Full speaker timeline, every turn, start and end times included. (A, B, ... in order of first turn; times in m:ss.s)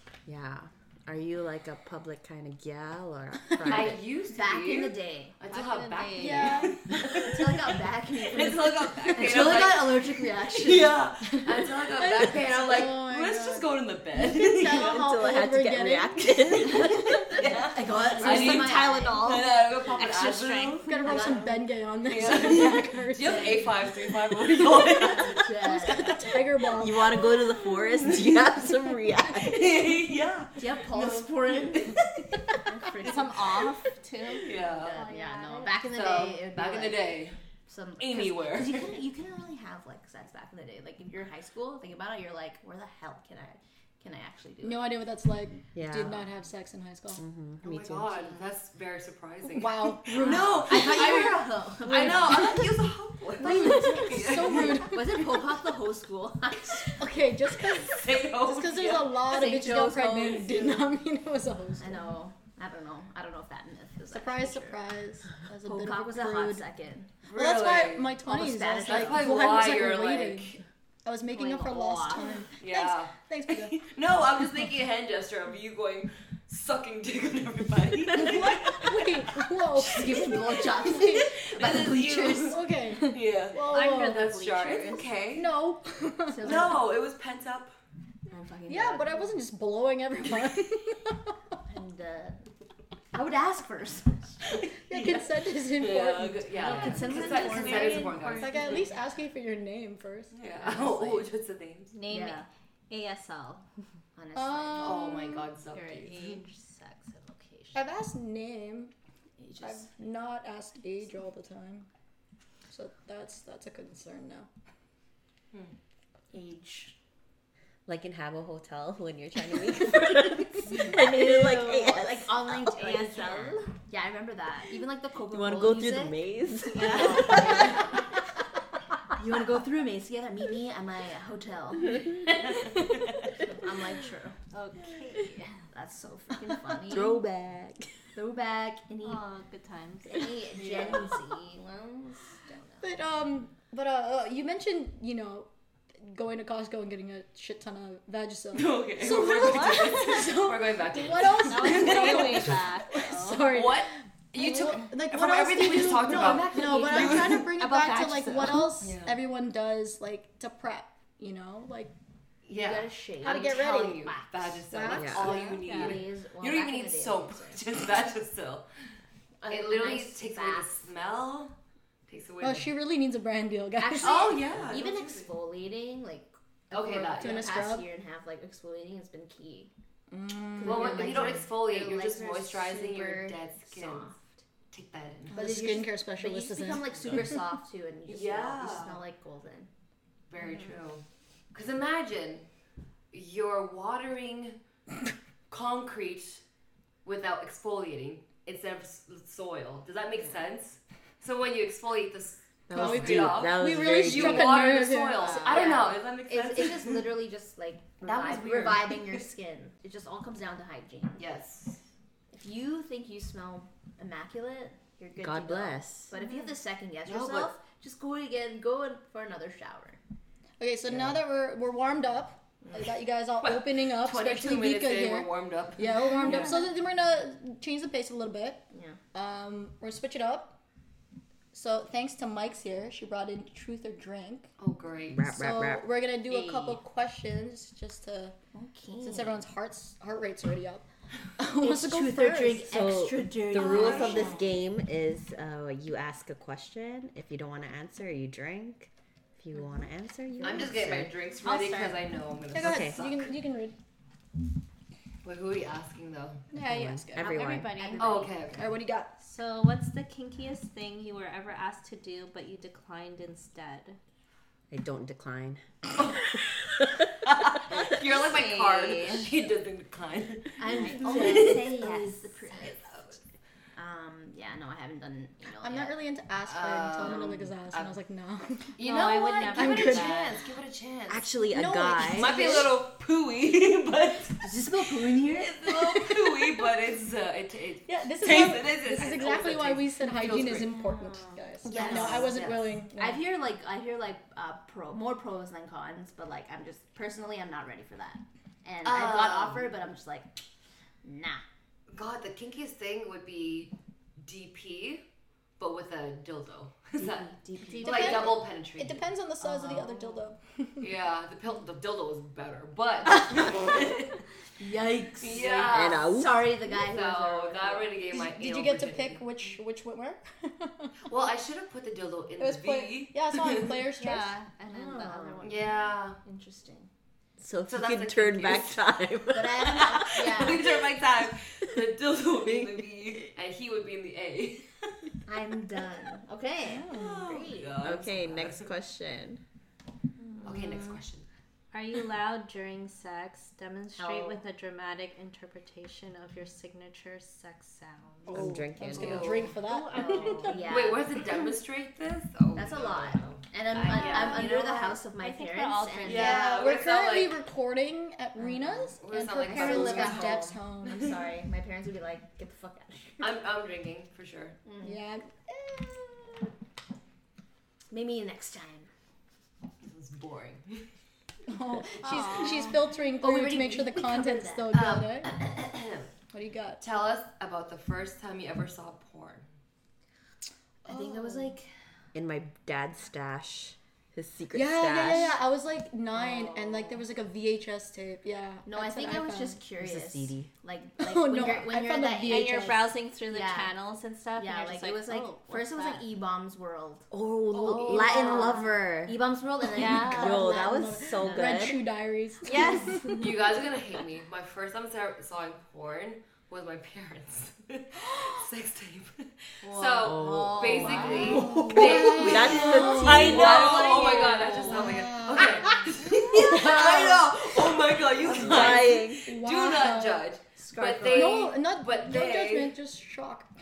0:00.2-0:04.0 A
0:03.6-0:07.8 B
0:04.3-0:05.4 C
0:05.5-0:06.7 D
0:06.2-0:06.8 E
0:06.9-0:11.1 C
0:08.3-0:15.0 B
0:12.0-0:16.4 E
0:14.7-0:17.3 A
0:17.3-0:19.4 C
0:17.3-0:20.9 B
0:18.2-0:21.5 D
0:20.8-0:23.8 E
0:21.0-0:21.6 C
0:22.0-0:25.5 B
0:24.8-0:26.2 C
0:25.5-0:27.1 E
0:26.8-0:29.8 A
0:27.3-0:28.5 B
0:29.3-0:32.4 B
0:30.6-0:32.0 C
0:32.6-0:33.6 C
0:33.0-0:35.9 D
0:34.4-0:35.0 B
0:34.6-0:45.0 C
0:35.9-0:37.4 B
0:38.0-0:38.9 B
0:44.6-0:47.2 E
0:45.7-0:46.2 A
0:47.2-0:48.2 A
0:47.6-0:55.0 B
0:49.5-0:50.8 E
0:50.2-0:52.7 C
0:51.9-0:52.6 E
0:53.4-0:55.3 E
0:53.4-0:53.8 C
0:54.6-0:57.1 C
0:57.0-1:02.0 E
0:57.7-0:59.2 B
0:59.2-1:00.8 C
1:01.8-1:04.8 C
1:04.1-1:06.6 E
1:05.6-1:07.1 C
1:07.2-1:08.1 B
1:07.3-1:13.8 E
1:08.2-1:09.7 C
1:08.8-1:10.6 B
1:11.3-1:12.4 C
1:12.6-1:19.3 B
1:18.1-1:21.3 E
1:19.7-1:22.6 C
1:20.0-1:25.5 B
1:22.3-1:24.3 E
1:23.6-1:25.2 D
1:25.3-1:26.8 E
1:26.3-1:26.9 C
1:26.4-1:27.7 B
1:28.3-1:29.4 C
1:28.7-1:31.3 E
1:31.6-1:32.4 C
1:33.1-1:34.7 C
1:34.5-1:38.9 B
1:34.9-1:40.3 E
1:36.6-1:38.4 C
1:36.7-1:38.9 D
1:40.3-1:41.9 B
1:40.6-1:41.3 C
1:41.9-1:43.6 D
1:42.1-1:42.4 C
1:44.2-1:45.2 C
1:44.3-1:45.5 E
1:44.8-1:46.4 B
1:45.7-1:47.8 D
1:47.7-1:48.9 E
1:49.4-1:49.9 C
1:49.6-1:51.9 E
1:52.7-1:54.5 E
1:56.3-1:57.0 C
1:57.8-2:02.6 A
2:00.7-2:06.2 C
2:02.7-2:03.7 D
2:05.3-2:07.7 A
2:06.7-2:08.0 C
2:06.8-2:07.7 D
2:09.2-2:12.6 C
2:13.4-2:14.4 C
2:14.5-2:15.6 D
2:15.7-2:17.2 C
2:16.8-2:17.9 A
2:18.1-2:19.2 C
2:19.0-2:20.4 D
2:20.0-2:23.0 C
2:20.5-2:21.1 B
2:22.8-2:25.5 E
2:26.0-2:41.9 E
2:28.5-2:32.6 B
2:29.1-2:29.9 D
2:31.4-2:33.6 D
2:33.5-2:37.5 B
2:36.1-2:37.4 C
2:37.5-2:38.7 D
2:38.8-2:39.2 B
2:42.4-2:48.6 B
2:42.5-2:44.6 C
2:43.2-2:44.1 E
2:44.7-2:45.6 E
2:44.9-2:45.2 A
2:45.2-2:47.6 C
2:45.6-2:46.0 D
2:49.4-2:50.7 C
2:49.5-2:51.5 B
2:52.1-2:52.7 B
2:52.4-2:54.3 E
2:53.8-2:59.7 C
2:54.0-2:55.3 B
2:56.7-2:57.5 B
2:57.2-2:57.9 E
3:00.1-3:01.4 E
3:00.5-3:04.4 C
3:00.6-3:04.1 B
3:04.7-3:05.4 B
3:05.3-3:09.7 C
3:05.3-3:07.4 E
3:08.1-3:09.0 B
3:10.3-3:12.4 B
3:13.1-3:14.6 B
3:15.5-3:16.4 B
3:17.0-3:27.2 B
3:22.7-3:24.7 A
3:22.7-3:25.7 E
3:25.2-3:31.2 C
3:25.2-3:25.6 D
3:28.0-3:29.2 B
3:31.2-3:31.8 B
3:32.3-3:40.0 C
3:35.2-3:36.1 A
3:37.0-3:37.6 B
3:40.6-3:48.6 E
3:42.6-3:42.9 C
3:43.4-3:46.4 B
3:46.2-3:46.6 D
3:46.3-3:46.6 C
3:48.7-3:49.0 C
3:49.1-3:50.5 E
3:51.5-3:54.5 E
3:54.6-3:55.3 B
3:55.1-3:55.9 A
3:55.3-3:58.3 E
3:56.2-3:56.8 C
3:58.5-3:59.4 C
3:59.0-4:00.8 E
4:01.4-4:02.7 E
4:01.6-4:04.4 C
4:02.7-4:11.1 A
4:03.5-4:04.4 B
4:10.4-4:13.3 B
4:11.4-4:12.0 D
4:12.5-4:13.7 E
4:12.6-4:13.0 A
4:15.2-4:16.4 B
4:16.5-4:17.4 E
4:16.6-4:17.8 A
4:17.2-4:18.3 D
4:17.7-4:18.5 C
4:18.0-4:18.7 B
4:18.5-4:19.1 E
4:19.2-4:24.0 D
4:24.7-4:25.6 A
4:27.3-4:31.8 B
4:27.9-4:29.3 D
4:30.6-4:32.8 C
4:30.8-4:31.4 D
4:32.5-4:33.2 B
4:33.7-4:36.0 C
4:35.6-4:38.8 E
4:36.4-4:38.0 B
4:38.8-4:41.3 B
4:38.8-4:40.3 D
4:39.4-4:40.2 E
4:41.1-4:42.6 A
4:41.5-4:42.7 E
4:42.0-4:50.7 B
4:44.4-4:45.6 C
4:45.6-4:46.6 E
4:47.9-4:53.3 E
4:50.6-4:52.3 D
4:51.6-5:00.4 C
4:51.9-4:52.7 B
4:58.8-4:59.7 B
5:01.0-5:01.4 C
5:01.9-5:05.0 B
5:05.6-5:09.0 B
5:07.0-5:08.4 C
5:07.8-5:10.8 E
5:09.4-5:10.2 C
5:10.8-5:14.1 B
5:13.3-5:13.8 C
5:14.6-5:18.0 C
5:15.2-5:16.0 B
5:15.7-5:16.5 A
5:16.7-5:19.2 B
5:18.1-5:21.0 E
5:21.0-5:23.7 B
5:22.4-5:24.4 E
5:23.9-5:25.7 D
5:24.7-5:26.9 C
5:25.4-5:26.2 B
5:27.4-5:30.5 A
5:27.7-5:28.8 B
5:29.3-5:30.7 C
5:30.0-5:35.1 B
5:32.4-5:33.3 A
5:35.3-5:38.0 C
5:36.8-5:38.7 B
5:37.8-5:39.4 A
5:40.2-5:41.0 D
5:40.4-5:41.2 B
5:41.7-5:50.7 D
5:44.0-5:44.4 C
5:48.3-5:50.7 E
5:48.3-5:49.4 A
5:48.9-5:54.7 B
5:50.2-5:51.4 C
5:52.5-5:56.5 C
5:53.7-5:56.4 D
5:56.0-5:57.4 B
5:56.1-6:01.1 E
5:58.4-6:03.2 C
5:59.0-6:01.1 B
6:03.2-6:04.6 B
6:04.6-6:05.0 C
6:04.8-6:06.5 E
6:07.9-6:08.9 C
6:09.8-6:10.8 B
6:11.5-6:15.3 E
6:12.0-6:12.8 D
6:12.4-6:14.9 C
6:14.7-6:16.1 B
6:16.3-6:16.8 E
6:16.8-6:19.4 B
6:20.8-6:21.6 C
6:20.8-6:21.6 B
6:22.1-6:25.3 A
6:24.5-6:29.6 E
6:26.1-6:27.0 B
6:28.6-6:32.7 C
6:29.8-6:30.5 A
6:31.0-6:33.0 E
6:32.3-6:36.0 D
6:33.3-6:33.8 C
6:34.4-6:41.7 C
6:37.1-6:39.2 A
6:37.9-6:38.6 B
6:38.1-6:38.5 D
6:39.7-6:40.5 D
6:39.8-6:43.3 E
6:39.9-6:41.8 A
6:42.4-6:43.3 D
6:42.5-6:43.0 C
6:43.2-7:02.7 B
6:49.6-6:53.7 C
6:50.0-6:54.4 A
6:50.8-6:57.0 E
6:51.0-6:51.3 D
6:53.2-6:54.6 D
6:55.4-6:55.7 C
6:56.3-6:57.1 C
6:58.2-6:59.3 A
6:58.4-7:00.3 E
7:00.6-7:01.5 C
7:01.0-7:03.5 E